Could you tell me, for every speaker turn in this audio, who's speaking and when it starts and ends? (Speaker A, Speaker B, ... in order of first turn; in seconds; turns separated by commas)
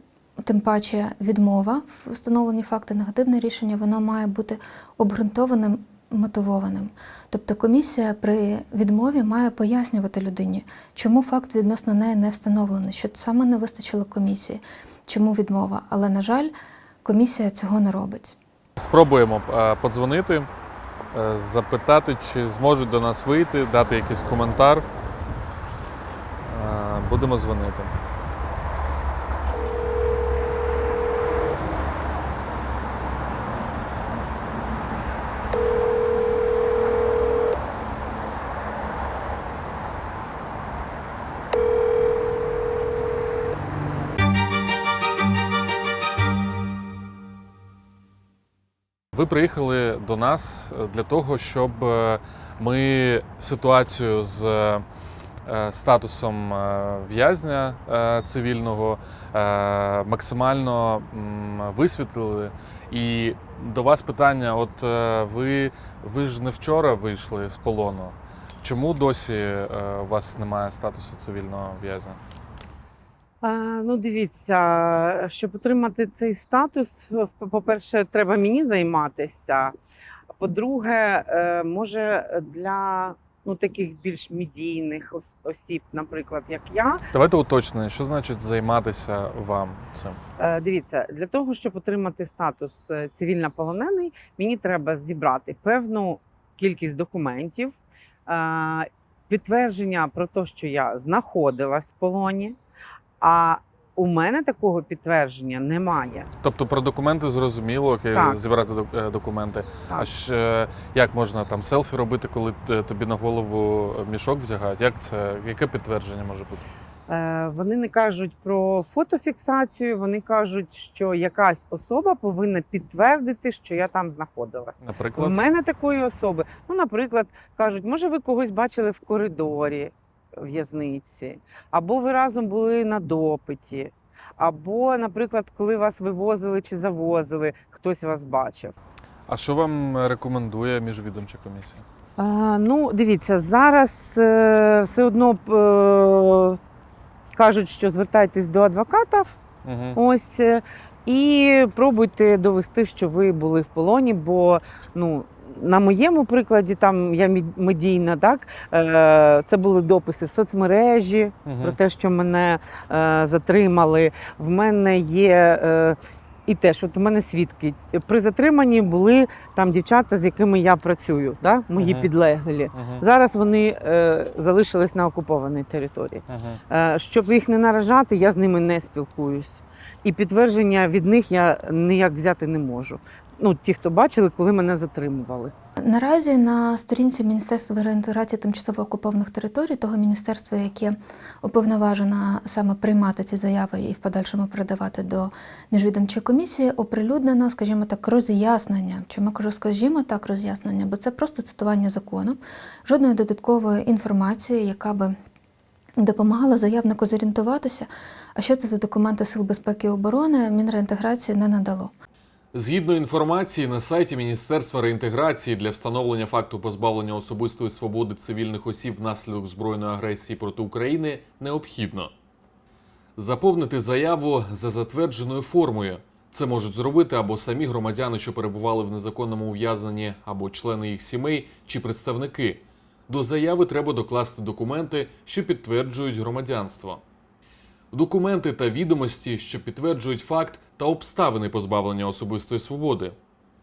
Speaker A: 0.4-16.5, Speaker A: 17.0-18.4, Speaker B: 18.8-20.5, Speaker B: 21.1-24.9, Speaker B: 26.4-27.9, Speaker B: 49.1-54.9, Speaker B: 55.5-72.2, Speaker C: 73.4-79.7, Speaker C: 80.4-87.0, Speaker B: 87.1-90.2, Speaker C: 90.4-97.8, Speaker C: 98.3-102.6, Speaker C: 103.2-106.3, Speaker B: 106.4-116.7, Speaker C: 108.1-108.4, Speaker C: 117.1-138.8, Speaker B: 124.8-125.4, Speaker B: 139.3-141.8, Speaker C: 142.2-146.6, Speaker C: 147.3-149.4, Speaker B: 149.7-150.0, Speaker C: 149.9-185.5, Speaker B: 161.5-161.8, Speaker B: 171.8-172.1, Speaker B: 172.7-173.0, Speaker B: 176.3-176.6, Speaker A: 185.9-205.2, Speaker A: 206.0-211.9, Speaker B: 212.5-222.1, Speaker B: 223.2-237.0, Speaker B: 237.9-243.2